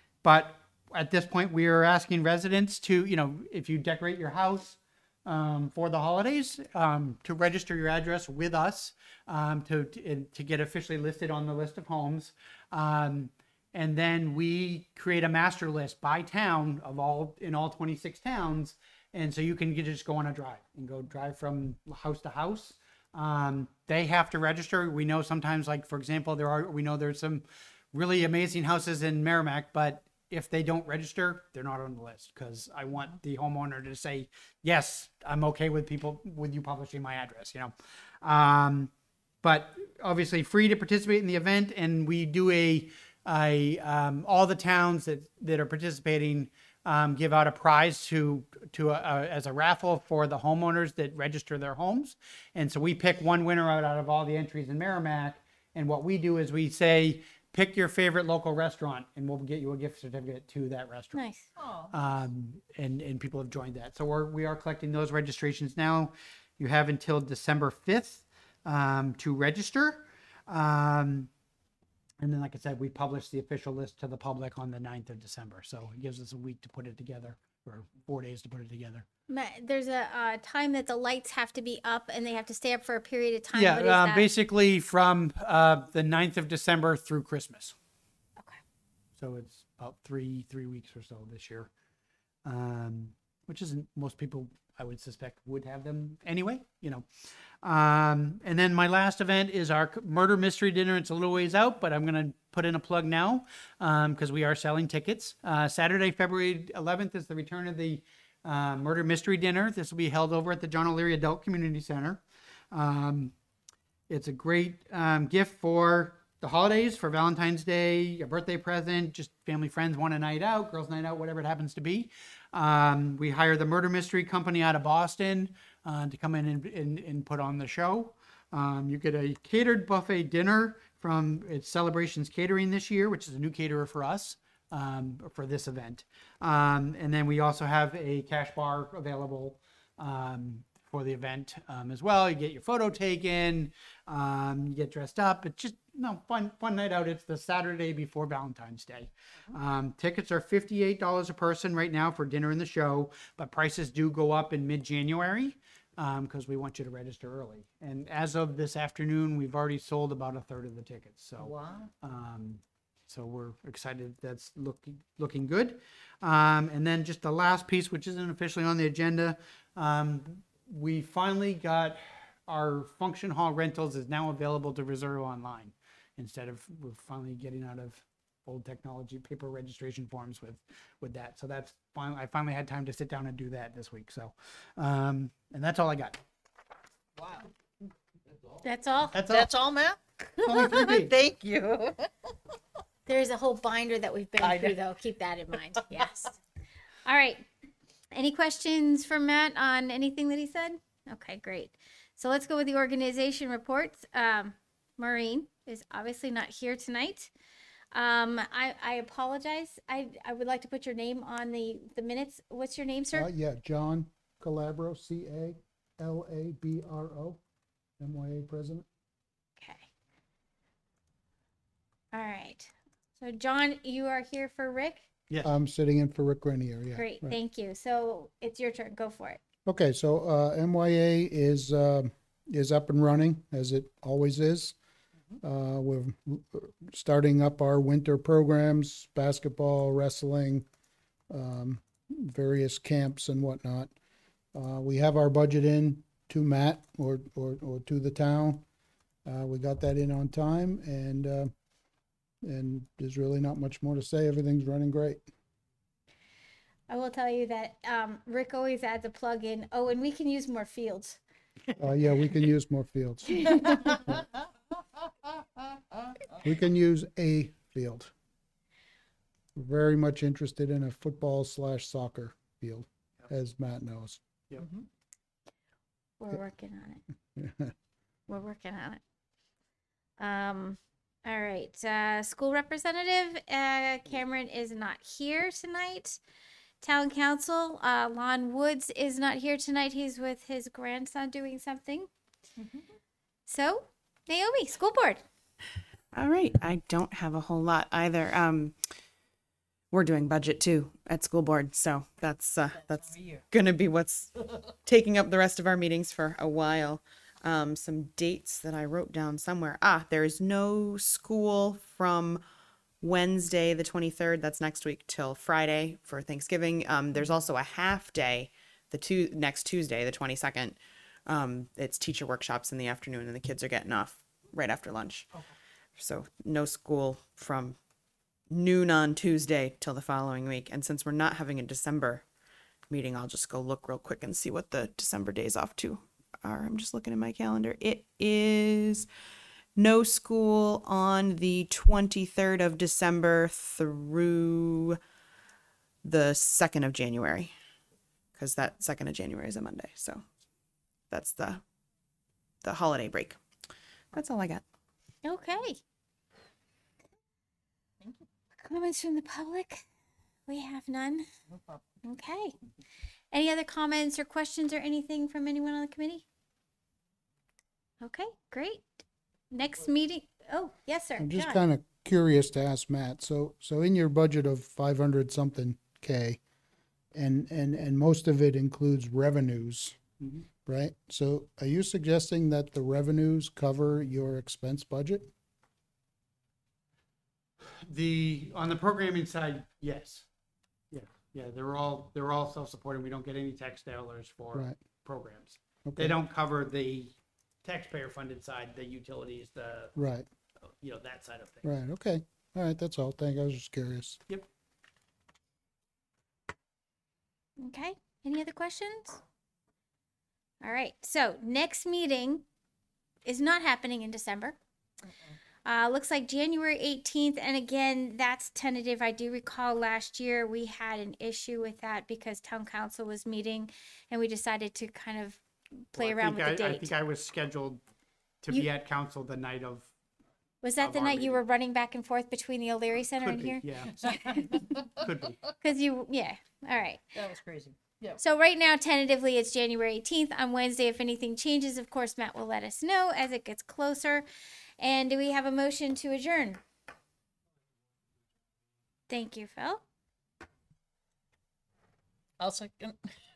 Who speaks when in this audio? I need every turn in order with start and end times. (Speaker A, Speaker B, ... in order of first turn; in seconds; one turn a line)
Speaker A: 0.2-38.9
Speaker A: 39.4-61.2
Speaker B: 61.1-61.4
Speaker C: 61.5-61.9
Speaker A: 61.9-71.3
Speaker A: 72.2-79.0
Speaker B: 79.3-84.3
Speaker A: 83.5-87.7
Speaker A: 89.2-91.7
Speaker A: 92.4-97.0
Speaker A: 97.6-112.2
Speaker A: 112.7-113.3
Speaker A: 114.1-186.2
Speaker C: 161.4-161.9
Speaker C: 187.2-187.5
Speaker B: 188.6-189.2
Speaker A: 189.1-189.5
Speaker C: 189.3-192.3
Speaker A: 190.4-191.1
Speaker B: 193.1-196.3
Speaker C: 194.4-194.8
Speaker C: 195.8-196.0
Speaker B: 197.1-197.5
Speaker B: 198.1-207.3
Speaker B: 207.9-213.3
Speaker D: 213.1-217.4
Speaker D: 218.0-218.8
Speaker B: 219.6-219.9
Speaker B: 222.1-225.1
Speaker D: 225.4-227.4
Speaker B: 226.9-229.4
Speaker D: 229.7-234.8
Speaker D: 235.4-240.7
Speaker D: 241.3-243.9
Speaker D: 244.5-248.6
Speaker D: 249.2-251.5
Speaker D: 252.4-255.2
Speaker B: 256.9-261.2
Speaker D: 261.8-264.2
Speaker D: 266.4-268.1
Speaker D: 269.5-274.2
Speaker C: 274.6-274.9
Speaker B: 276.2-277.0
Speaker D: 277.4-277.7
Speaker B: 278.3-279.0
Speaker B: 280.2-286.2
Speaker B: 286.8-292.1
Speaker C: 292.6-292.9
Speaker B: 293.5-295.2
Speaker E: 296.1-298.8
Speaker E: 299.9-304.3
Speaker C: 302.7-303.4
Speaker E: 304.9-312.4
Speaker E: 313.0-325.3
Speaker E: 325.9-327.8
Speaker E: 328.5-332.2
Speaker E: 332.9-339.1
Speaker E: 339.8-345.0
Speaker E: 346.0-347.5
Speaker E: 348.3-350.2
Speaker E: 351.1-351.6
Speaker E: 352.6-353.4
Speaker E: 354.1-354.6
Speaker B: 355.2-355.8
Speaker B: 358.6-359.8
Speaker B: 360.5-361.3
Speaker B: 362.0-362.5
Speaker B: 363.3-366.2
Speaker B: 368.0-371.6
Speaker D: 371.2-376.4
Speaker D: 377.1-380.0
Speaker D: 380.6-385.3
Speaker A: 387.7-390.3
Speaker A: 390.9-399.9
Speaker D: 395.9-396.2
Speaker D: 399.9-400.3
Speaker A: 400.8-401.7
Speaker D: 401.6-404.2
Speaker B: 407.6-409.2
Speaker B: 410.6-412.4
Speaker B: 413.2-414.6
Speaker C: 415.1-415.3
Speaker B: 415.6-426.9
Speaker A: 426.0-427.8
Speaker A: 428.4-429.9
Speaker B: 430.6-434.6
Speaker A: 430.8-431.4
Speaker A: 433.2-434.0
Speaker C: 433.8-435.1
Speaker A: 434.9-435.4
Speaker B: 435.6-437.0
Speaker C: 437.1-438.2
Speaker B: 438.2-444.2
Speaker B: 444.8-446.6
Speaker B: 449.1-449.8
Speaker C: 452.4-453.1